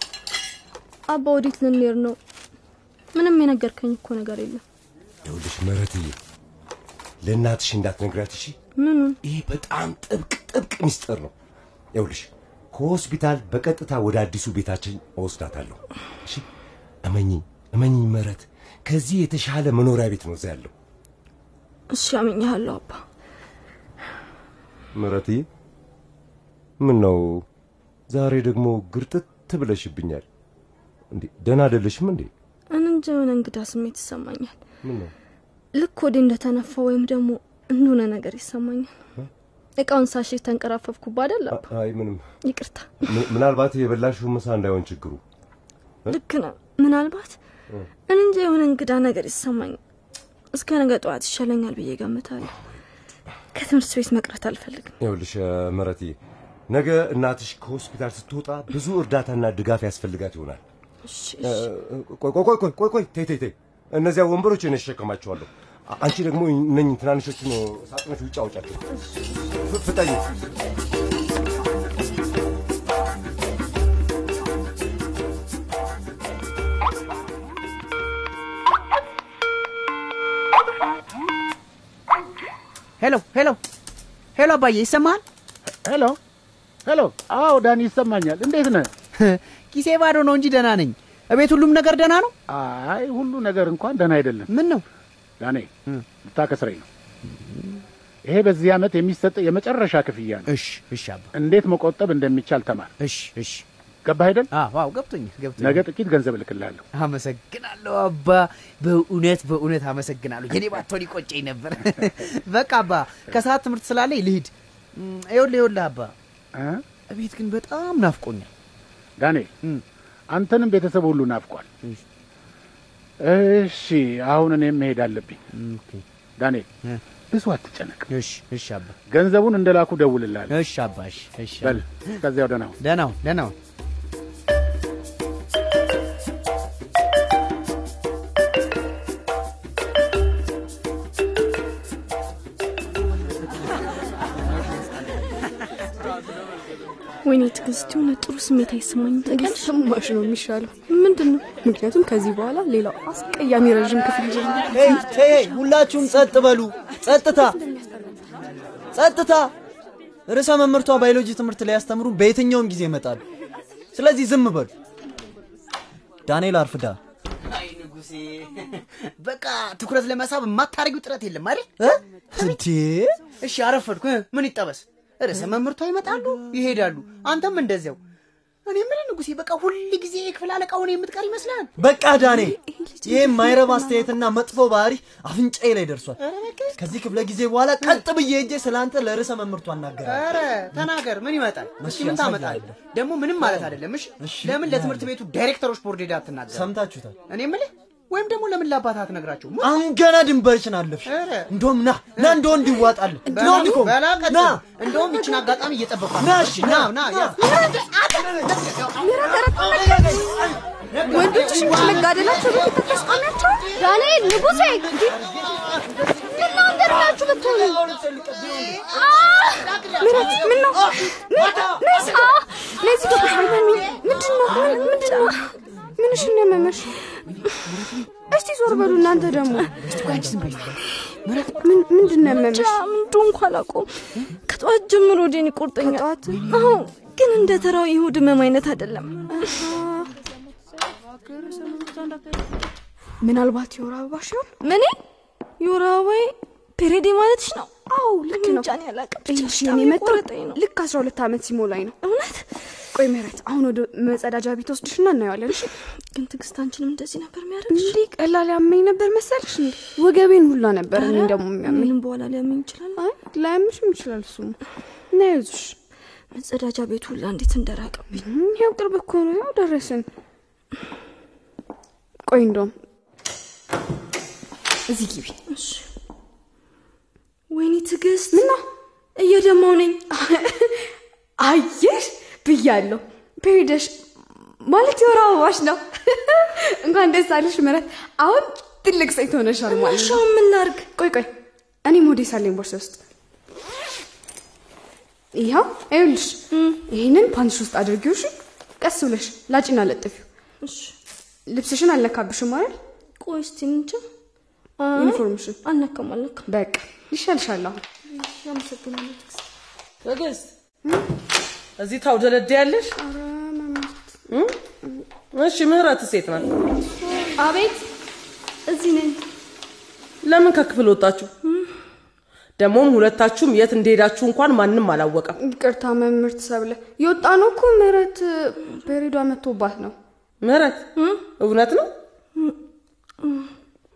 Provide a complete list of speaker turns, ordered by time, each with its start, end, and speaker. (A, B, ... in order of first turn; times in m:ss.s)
0:01.1-0:02.2 A
0:03.1-0:04.6 A
0:05.2-0:06.2 B
0:07.2-0:08.6 B
0:08.8-0:09.2 A
0:09.3-0:11.3 B
0:11.9-0:16.4 B
0:17.0-0:20.7 B
0:21.9-0:23.0 A
0:24.9-0:25.5 B
0:26.8-0:27.4 B
0:28.1-0:30.2 B
0:31.1-0:32.3 B
0:32.7-0:34.6 A
0:34.8-0:35.1 B
0:35.7-0:38.9 A
0:39.8-0:41.7 A
0:41.5-0:42.2 B
0:42.4-0:43.4 A
0:43.1-0:45.2 B
0:46.1-0:47.4 A
0:48.1-0:49.8 A
0:50.5-0:52.5 A
0:53.5-0:54.9 A
0:55.0-0:56.2 B
0:56.7-1:00.6 B
1:01.1-1:01.7 A
1:01.5-1:08.8 B
1:09.7-1:10.2 B
1:23.0-1:23.6 C
1:24.3-1:25.2 C
1:25.8-1:26.2 D
1:26.8-1:28.9 D
1:29.1-1:32.3 C
1:32.5-1:34.5 D
1:34.5-1:34.8 C
1:35.4-1:35.7 D
1:36.2-1:36.8 D
1:37.2-1:37.8 C
1:38.2-1:40.5 D
1:40.5-1:41.3 C
1:41.3-1:42.9 D
1:43.0-1:43.6 C
1:44.0-1:44.5 D
1:44.5-1:45.8 C
1:45.6-1:46.8 D
1:46.9-1:56.1 C
1:56.6-1:56.8 D
1:57.1-1:58.5 C
1:59.2-1:59.5 D
2:00.3-2:01.6 D
2:03.2-2:05.4 D
2:05.5-2:06.0 C
2:06.4-2:06.6 D
2:07.3-2:08.0 D
2:08.1-2:09.0 C
2:09.1-2:10.6 D
2:10.5-2:12.2 C
2:11.6-2:12.7 D
2:12.8-2:13.5 C
2:27.2-2:29.8 A
2:29.2-2:30.7 E
2:30.9-2:31.5 A
2:31.6-2:35.1 E
2:34.7-2:37.6 F
2:37.1-2:38.2 E
2:38.9-2:39.5 F
2:40.3-2:43.2 F
2:43.9-2:44.7 F
2:46.3-2:47.0 F
2:47.4-2:52.6 C
2:51.8-2:53.2 F
2:53.4-2:58.0 C
2:58.6-3:01.7 C
3:01.8-3:06.2 F
3:02.1-3:04.1 E
3:06.2-3:06.8 C
3:06.8-3:10.9 F
3:10.0-3:16.7 C
3:11.8-3:12.7 F
3:13.4-3:15.1 F
3:16.5-3:17.2 F
3:17.3-3:19.7 C
3:19.6-3:24.6 F
3:21.0-3:21.5 C
3:22.2-3:22.4 C
3:23.2-3:30.0 C
3:24.9-3:25.5 E
3:26.2-3:27.4 F
3:27.4-3:28.0 E
3:28.1-3:28.7 F
3:29.0-3:30.4 E
3:29.3-3:32.2 F
3:30.9-3:33.8 C
3:31.1-3:35.1 E
3:33.8-3:39.0 F
3:33.8-3:34.8 A
3:36.4-3:37.1 A
3:37.0-3:37.8 E
3:38.5-3:40.8 C
3:38.9-3:39.7 A
3:40.0-3:45.3 E
3:40.1-3:41.9 F
3:42.2-3:45.5 A
3:46.0-3:47.0 E
3:47.6-3:48.1 C
3:48.3-3:50.3 E
3:49.8-3:51.5 C
3:51.4-3:52.8 E
3:52.2-3:53.9 A
3:54.4-3:59.6 A
3:55.8-3:56.4 E
3:56.3-3:56.6 C
3:59.3-4:00.1 E
4:01.3-4:02.0 E
4:03.2-4:04.6 E
4:04.6-4:05.0 A
4:05.6-4:10.6 A
4:08.3-4:08.7 E
4:09.2-4:11.9 E
4:12.0-4:12.4 A
4:13.0-4:15.7 E
4:16.1-4:18.0 A
4:17.7-4:21.9 E
4:20.9-4:23.0 A
4:23.0-4:24.6 E
4:25.1-4:25.8 E
4:26.3-4:28.2 A
4:28.1-4:30.1 E
4:32.3-4:32.7 E
4:34.9-4:35.4 E
4:35.5-4:35.8 A
4:37.5-4:38.5 A
4:38.3-4:38.6 E
4:39.2-4:40.0 A
4:40.1-4:40.8 E
4:41.4-4:44.0 E
4:44.6-4:50.2 E
4:49.7-4:50.9 A
4:50.9-4:51.3 E
4:51.8-4:53.0 E
4:55.3-5:00.2 E
4:56.5-4:56.9 A
5:00.6-5:00.9 A
5:01.5-5:02.8 E
5:03.2-5:04.0 A
5:04.8-5:06.5 A
5:04.9-5:05.6 E
5:06.5-5:07.8 E
5:08.1-5:09.4 A
5:10.0-5:10.3 G
5:11.8-5:12.9 G
5:13.0-5:14.0 E
5:15.3-5:16.5 G
5:17.3-5:17.8 A
5:18.7-5:19.2 A
5:20.2-5:21.3 G
5:22.6-5:25.3 G
5:25.4-5:30.0 E
5:30.4-5:30.9 G
5:31.0-5:31.3 A
5:31.4-5:31.9 G
5:33.2-5:33.5 A